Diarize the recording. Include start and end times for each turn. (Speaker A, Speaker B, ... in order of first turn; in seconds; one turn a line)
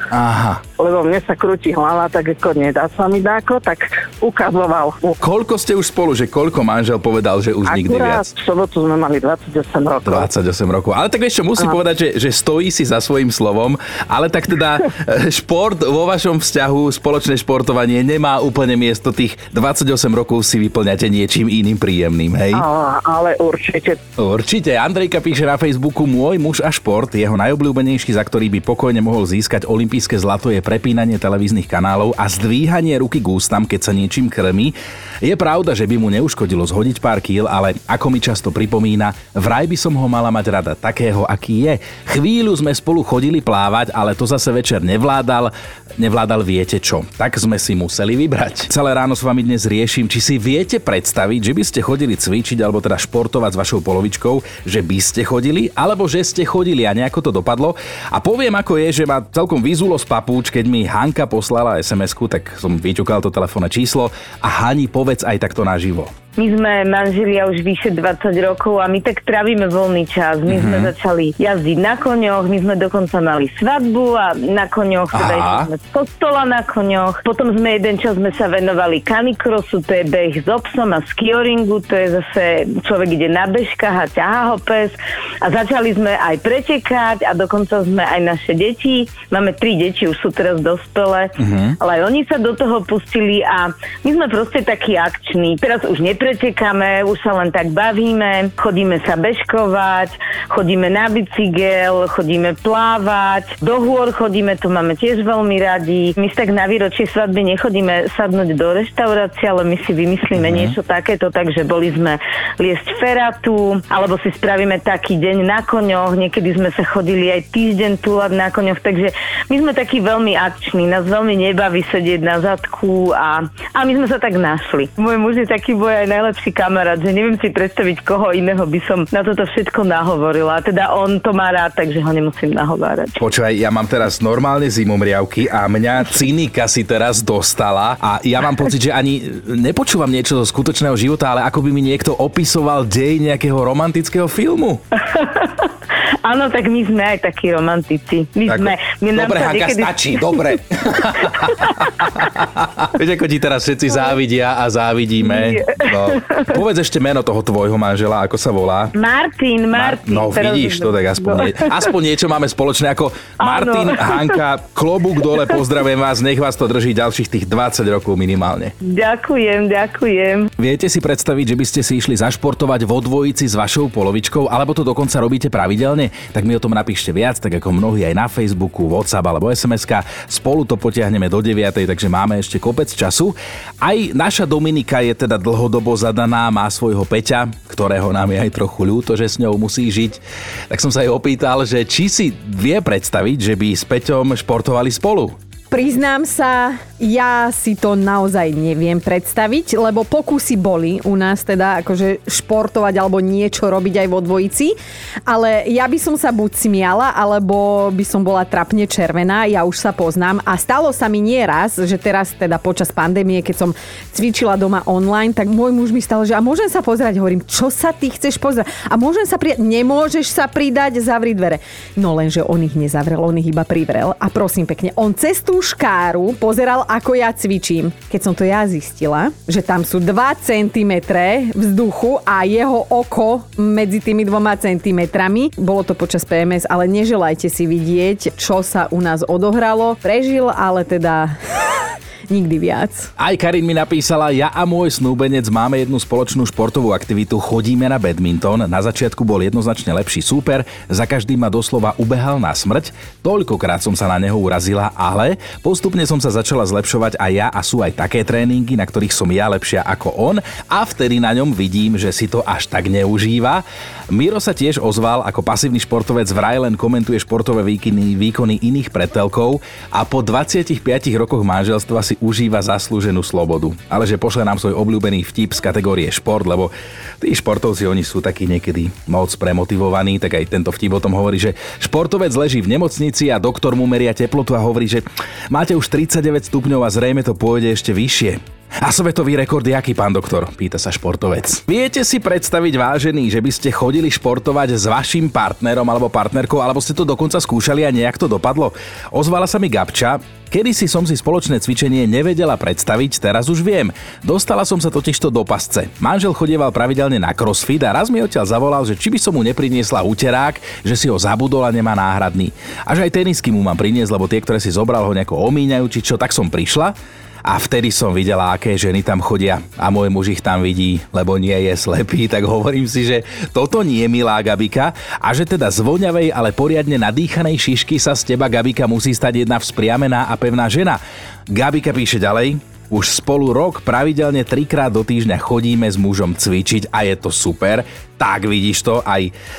Speaker A: 0.1-0.6
Speaker B: 0.8-5.2
Speaker A: 5.2-8.3
Speaker B: 7.7-10.3
Speaker A: 10.0-22.6
Speaker B: 22.5-24.0
Speaker A: 24.2-66.1
Speaker C: 66.4-133.2
Speaker A: 70.5-70.9
Speaker A: 75.1-75.7
Speaker A: 91.4-91.8
Speaker A: 110.3-110.7
Speaker A: 133.2-144.8
Speaker C: 145.1-145.7
Speaker C: 146.2-150.4
Speaker A: 148.5-158.9
Speaker C: 151.2-151.8
Speaker C: 155.3-156.4
Speaker C: 158.9-161.8
Speaker A: 159.7-168.7
Speaker C: 163.4-164.3
Speaker C: 168.8-170.5
Speaker A: 170.6-195.3
Speaker D: 195.7-204.7
Speaker D: 205.3-241.3
Speaker D: 242.3-243.1
Speaker A: 243.2-339.3